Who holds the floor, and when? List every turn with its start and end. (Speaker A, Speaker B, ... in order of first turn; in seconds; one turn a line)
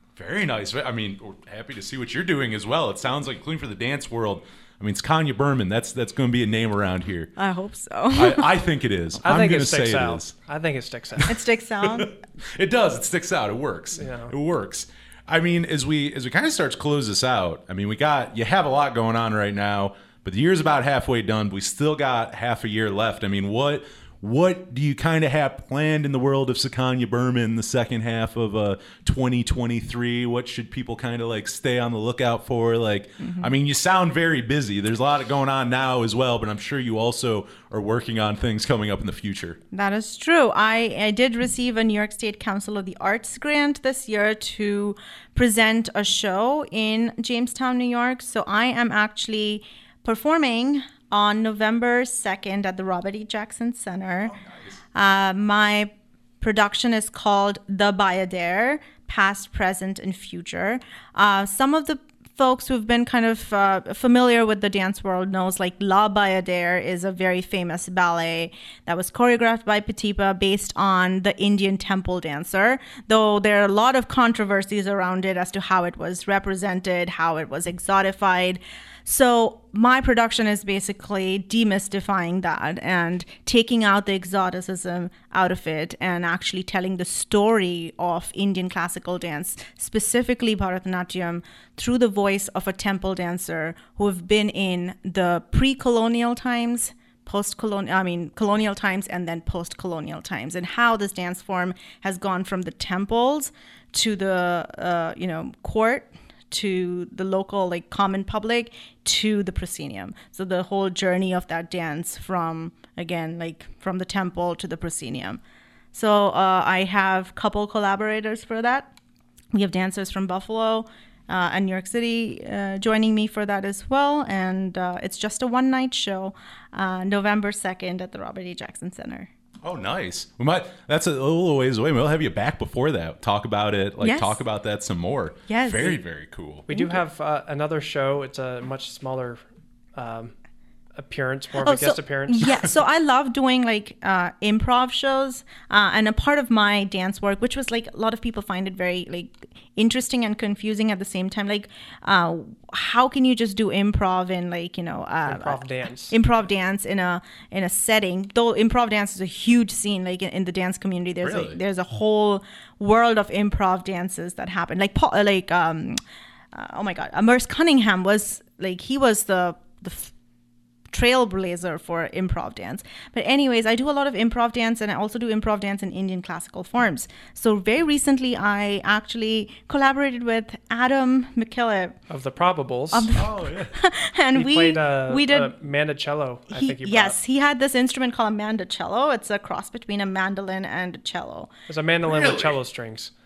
Speaker A: 0.2-7.3
Speaker B: 7.4-8.5
Speaker A: 8.1-10.3
Speaker C: 9.2-11.3
Speaker B: 11.3-12.1
Speaker A: 11.8-39.6
Speaker C: 14.0-14.3
Speaker B: 33.2-33.5
Speaker B: 39.7-54.3
Speaker A: 54.3-54.7
Speaker B: 54.9-115.4
Speaker B: 115.9-118.9
Speaker B: 119.5-129.3
Speaker A: 129.6-136.7
Speaker B: 134.0-134.4
Speaker B: 135.5-136.0
Speaker C: 136.7-139.4
Speaker B: 136.7-137.0
Speaker C: 139.9-140.3
Speaker C: 140.9-142.6
Speaker B: 141.6-166.0
Speaker C: 155.2-156.1
Speaker A: 161.2-161.6
Speaker B: 166.5-170.1
Speaker B: 170.9-182.0
Speaker C: 182.1-183.1
Speaker B: 182.9-185.5
Speaker A: 183.2-183.8
Speaker C: 184.3-187.2
Speaker B: 186.5-191.5
Speaker C: 191.7-193.1
Speaker A: 192.0-192.6